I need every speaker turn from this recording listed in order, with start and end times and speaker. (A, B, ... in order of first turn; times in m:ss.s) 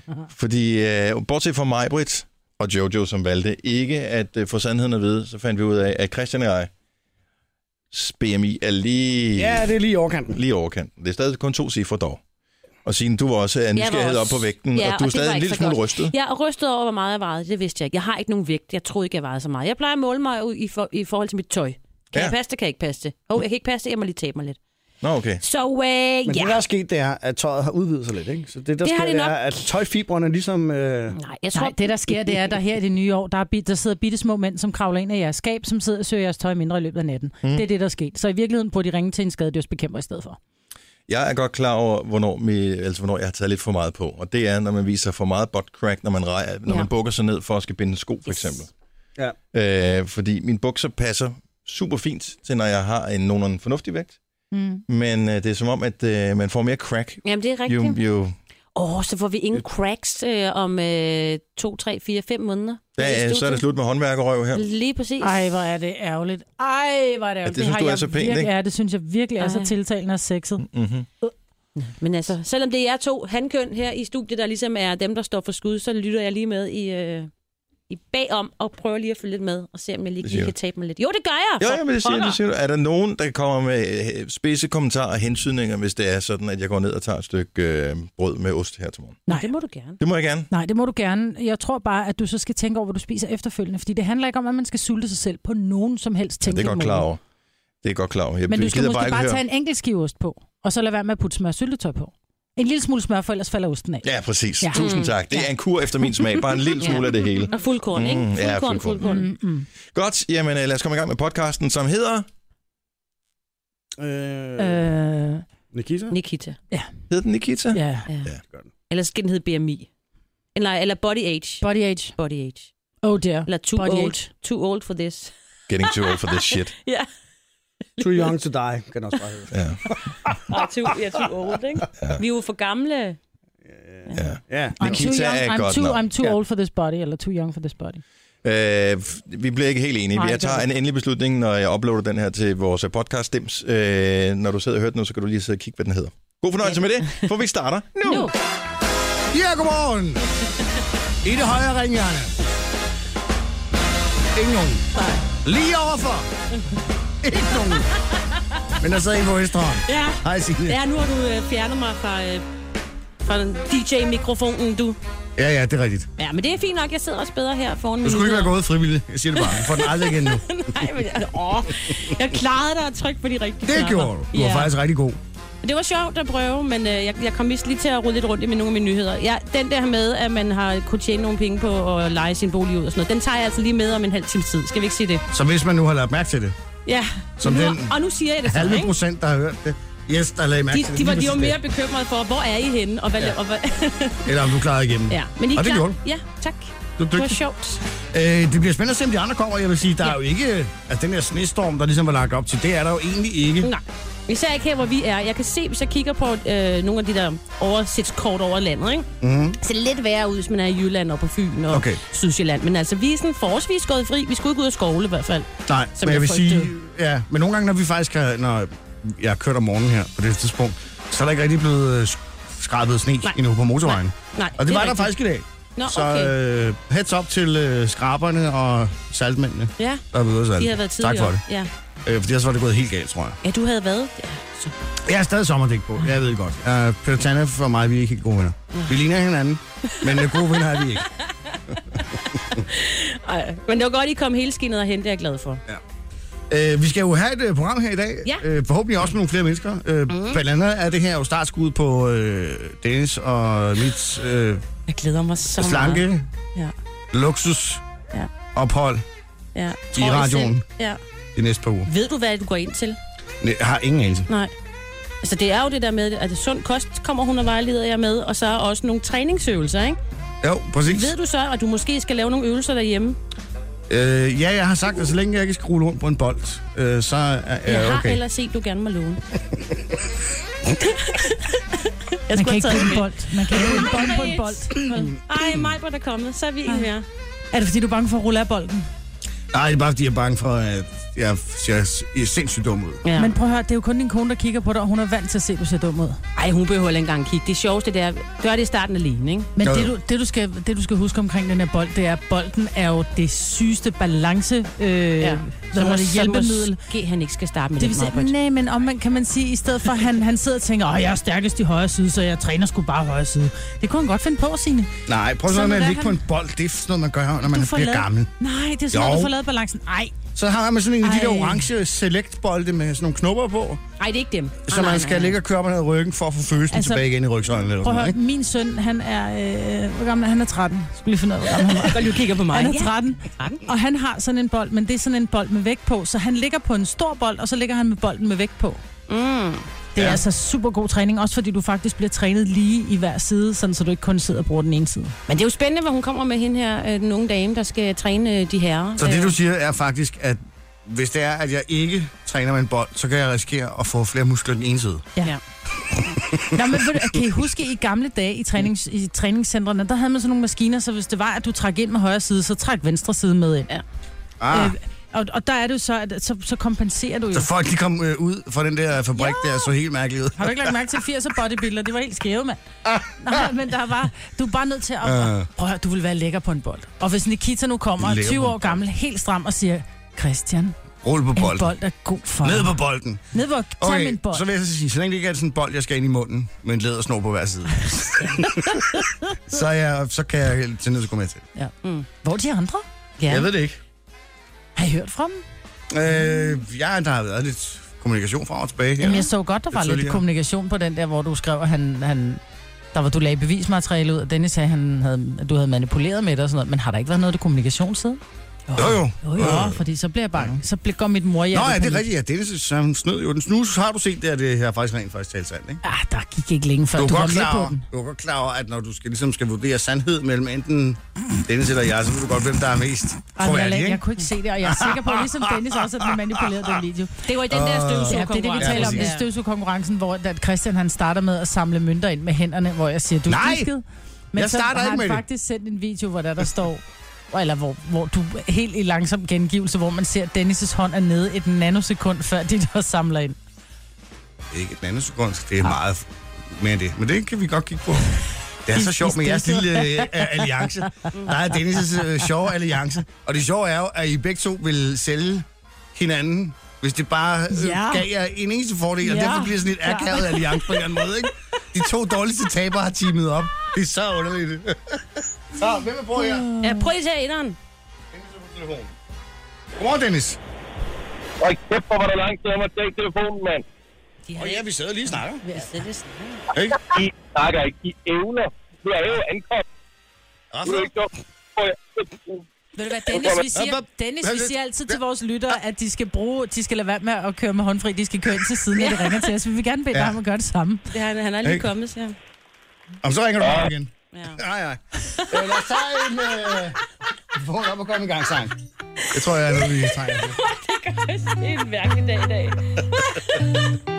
0:00.3-0:06.7 A
0:07.9-0:09.6 A
0:09.3-0:10.4 B
0:10.3-0:12.2 A
0:12.8-0:16.1 A
0:13.7-0:24.6 C
0:25.0-0:25.4 A
0:25.4-0:26.6 C
0:26.2-0:31.2 B
0:28.8-0:29.6 C
0:31.2-0:31.8 C
0:31.5-0:40.4 D
0:41.1-0:48.7 A
0:49.5-0:54.2 A
0:54.5-0:54.8 D
0:54.9-0:58.4 A
0:57.2-0:58.0 C
0:58.7-1:03.6 C
1:03.0-1:04.6 A
1:04.5-1:05.4 C
1:05.2-1:10.6 D
1:07.4-1:08.5 A
1:09.4-1:09.7 C
1:10.6-1:11.1 A
1:11.8-1:17.3 C
1:17.9-1:22.4 C
1:20.2-1:20.5 A
1:21.6-1:29.2 A
1:29.3-1:30.0 C
1:30.0-1:30.5 A
1:30.5-1:37.0 D
1:36.4-1:37.2 A
1:37.8-1:39.4 A
1:38.5-1:44.0 D
1:44.0-1:49.1 A
1:44.6-1:46.5 D
1:44.7-1:45.1 C
1:46.8-1:49.2 C
1:49.0-1:49.7 D
1:49.9-1:52.3 A
1:54.0-1:54.8 B
1:54.6-1:55.4 D
1:55.7-1:56.2 B
1:56.1-1:56.6 C
1:57.1-1:58.4 A
1:57.7-1:58.1 D
1:58.9-1:59.9 C
2:00.5-2:02.7 C
2:01.6-2:02.1 D
2:03.0-2:04.3 D
2:03.5-2:05.3 C
2:05.7-2:06.7 A
2:05.8-2:07.1 C
2:08.0-2:08.3 C
2:08.0-2:10.5 B
2:09.5-2:09.8 A
2:10.5-2:13.2 C
2:13.7-2:15.0 B
2:14.0-2:14.4 C
2:14.2-2:16.0 A
2:14.8-2:18.0 D
2:18.4-2:28.3 A
2:20.1-2:20.7 D
2:26.6-2:27.3 C
2:28.0-2:28.3 C
2:29.3-2:30.3 B
2:31.2-2:32.4 B
2:34.3-2:34.9 B
2:35.4-2:36.3 B
2:37.2-2:37.9 B
2:38.8-2:40.8 B
2:39.8-2:42.4 C
2:43.2-2:45.0 C
2:45.4-2:46.1 B
2:46.2-2:48.5 C
2:48.0-2:50.8 B
2:49.3-2:54.7 C
2:53.6-2:55.2 B
2:55.6-3:05.2 C
3:05.3-3:06.6 B
3:06.8-3:08.9 C
3:07.4-3:11.6 B
3:10.7-3:14.5 C
3:14.2-3:16.0 B
3:15.1-3:17.8 C
3:17.0-3:17.4 B
3:18.1-3:23.7 B
3:23.6-3:29.1 C
3:29.2-3:29.6 B
3:29.6-3:36.7 C
3:31.7-3:32.0 B
3:35.7-3:51.4 B
3:43.2-3:45.1 C
3:45.8-3:46.3 C
3:49.8-3:50.0 C
3:50.6-3:51.7 C
3:52.0-3:53.4 B
3:53.4-3:54.7 C
3:55.0-4:01.1 B
3:59.9-4:00.1 C
4:01.0-4:05.6 C
4:06.5-4:14.6 B
4:10.1-4:10.4 C
4:14.9-4:16.7 C
4:15.6-4:16.2 B
4:17.1-4:17.8 B
4:18.5-4:19.0 B
4:19.5-4:21.0 C
4:19.9-4:20.6 B
4:21.3-4:21.9 B
4:21.8-4:23.0 C
4:23.4-4:24.3 B
4:24.3-4:24.5 C
4:25.2-4:30.0 C
4:30.4-4:31.1 B
4:30.8-4:33.2 C
4:33.9-4:38.2 B
4:37.6-4:39.2 C
4:40.8-4:47.0 C
4:42.3-4:44.8 D
4:45.3-4:45.7 B
4:47.5-4:48.9 D
4:49.5-4:53.0 B
4:53.0-4:53.3 C
4:53.2-4:56.2 D
4:56.4-4:59.5 C
4:59.6-5:06.8 D
4:59.6-4:59.9 B
5:05.2-5:08.3 C
5:07.8-5:14.9 D
5:15.1-5:18.3 B
5:15.4-5:16.2 D
5:17.5-5:20.1 D
5:18.9-5:19.3 B
5:20.4-5:23.8 B
5:21.0-5:21.7 D
5:24.0-5:25.4 C
5:24.6-5:28.2 B
5:26.7-5:27.0 D
5:27.8-5:38.8 D
5:31.8-5:33.6 C
5:39.1-5:39.7 C
5:39.9-5:45.1 D
5:45.3-5:49.4 C
5:49.0-5:55.0 B
5:56.0-5:57.0 B
5:56.5-6:03.7 D
6:04.4-6:04.8 B
6:04.5-6:07.5 D
6:07.3-6:10.7 B
6:09.2-6:09.7 D
6:10.4-6:12.6 D
6:12.8-6:13.5 B
6:13.2-6:20.8 D
6:15.0-6:15.5 B
6:18.0-6:18.8 B
6:21.0-6:21.7 B
6:21.3-6:22.8 D
6:22.4-6:23.2 B
6:23.3-6:24.4 D
6:23.8-6:31.4 B
6:31.6-6:32.8 D
6:33.2-6:33.5 C
6:33.2-6:33.8 B
6:34.8-6:35.4 D
6:35.9-6:40.2 B
6:39.0-6:42.4 D
6:42.9-6:52.0 D
6:48.8-6:49.8 B
6:51.5-6:55.8 B
6:55.8-6:57.8 D
6:57.0-7:04.0 B
7:03.4-7:07.2 D
7:04.6-7:06.4 B
7:07.2-7:09.3 C
7:07.5-7:09.1 B
7:08.1-7:23.4 D
7:13.3-7:13.7 B
7:14.3-7:15.2 B
7:24.5-7:46.4 B
7:28.7-7:31.5 D
7:37.5-7:38.1 D
7:39.0-7:40.5 D
7:46.2-7:46.9 D
7:46.6-7:47.6 C
7:48.1-7:48.9 B
7:49.8-7:50.4 B
7:51.4-7:53.6 E
7:54.3-7:56.5 C
7:54.4-7:55.4 B
7:55.4-7:55.7 D
7:56.5-7:56.8 B
7:56.6-7:59.6 E
8:00.5-8:00.9 B
8:00.6-8:02.4 E
8:02.8-8:10.8 D
8:03.1-8:03.4 E
8:03.5-8:05.0 B
8:08.8-8:09.3 C
8:10.9-8:12.2 C
8:13.0-8:16.8 B
8:14.1-8:14.4 C
8:15.1-8:15.7 C
8:17.3-8:18.5 B
8:19.0-8:23.7 C
8:19.1-8:20.4 B